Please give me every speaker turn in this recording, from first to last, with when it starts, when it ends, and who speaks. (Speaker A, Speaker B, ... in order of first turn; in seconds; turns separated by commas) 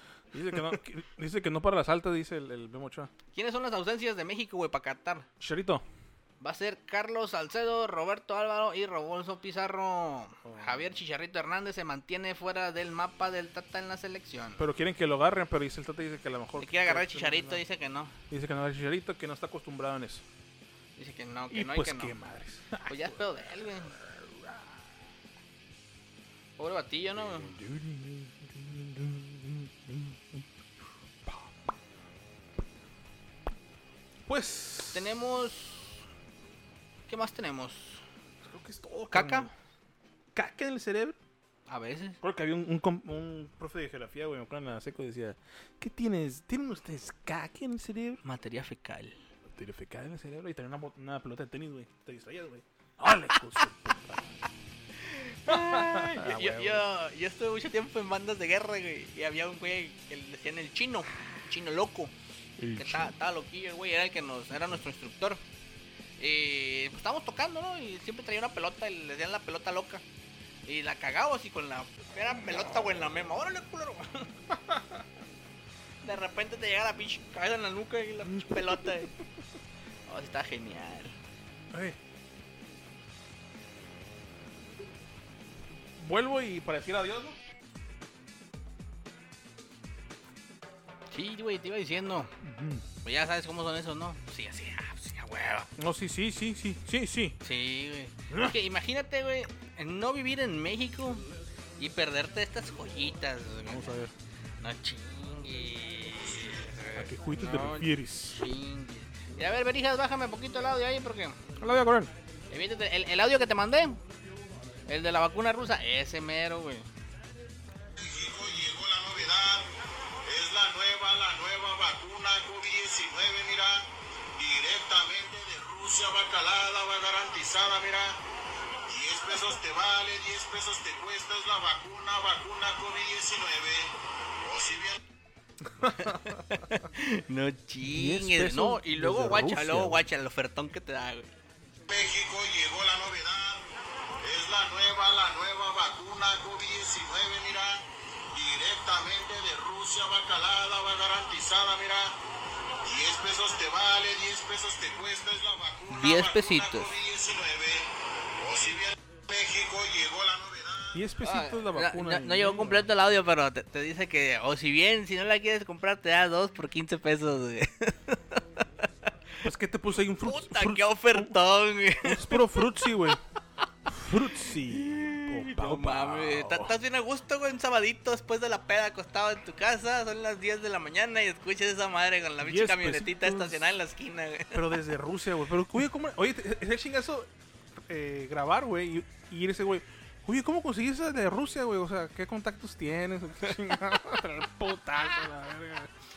Speaker A: 0.3-3.1, Speaker B: 3.3-5.3, Speaker A: 5.4-5.8, Speaker B: 6.4-14.6, Speaker A: 10.4-10.9, Speaker A: 14.6-17.6, Speaker B: 16.6-18.1, Speaker A: 18.3-20.2, Speaker B: 21.0-22.1, Speaker A: 21.5-24.8, Speaker B: 22.9-24.0, Speaker B: 26.6-27.6, Speaker A: 27.2-30.4, Speaker A: 31.3-31.5, Speaker A: 34.3-35.2, Speaker B: 34.9-35.9, Speaker B: 37.1-38.0, Speaker A: 38.4-39.5, Speaker B: 39.1-39.5, Speaker A: 40.4-41.2, Speaker B: 41.7-42.2, Speaker A: 42.2-48.2, Speaker B: 48.2-49.2, Speaker A: 49.5-54.5, Speaker B: 55.0-62.1, Speaker A: 55.5-56.9, Speaker A: 62.6-63.1, Speaker B: 62.8-65.4, Speaker B: 66.2-70.0, Speaker B: 70.7-74.3, Speaker A: 74.5-75.0, Speaker B: 76.0-79.2, Speaker A: 78.3-79.1, Speaker B: 80.1-81.2, Speaker A: 81.7-82.0, Speaker A: 86.0-87.4, Speaker B: 91.1-92.3, Speaker A: 92.4-92.8, Speaker B: 93.0-95.7, Speaker A: 95.8-97.4, Speaker B: 97.4-101.3, Speaker A: 98.3-98.5, Speaker B: 101.8-104.0, Speaker A: 103.7-104.1, Speaker B: 104.6-111.5, Speaker A: 106.9-108.5, Speaker A: 111.6-112.1, Speaker B: 112.5-114.0, Speaker B: 114.9-116.9, Speaker C: 118.0-119.7, Speaker C: 120.2-128.2, Speaker C: 128.9-135.0, Speaker A: 135.7-136.6, Speaker B: 135.8-141.3, Speaker A: 137.8-140.1, Speaker C: 141.9-152.2, Speaker C: 152.8-161.0, Speaker B: 155.9-156.9, Speaker A: 160.9-162.9, Speaker B: 161.2-168.6, Speaker A: 169.4-171.4, Speaker B: 170.2-172.6, Speaker A: 172.0-173.2, Speaker A: 173.9-176.8, Speaker B: 174.6-184.6, Speaker A: 182.4-183.6, Speaker A: 184.5-187.3, Speaker A: 187.9-195.9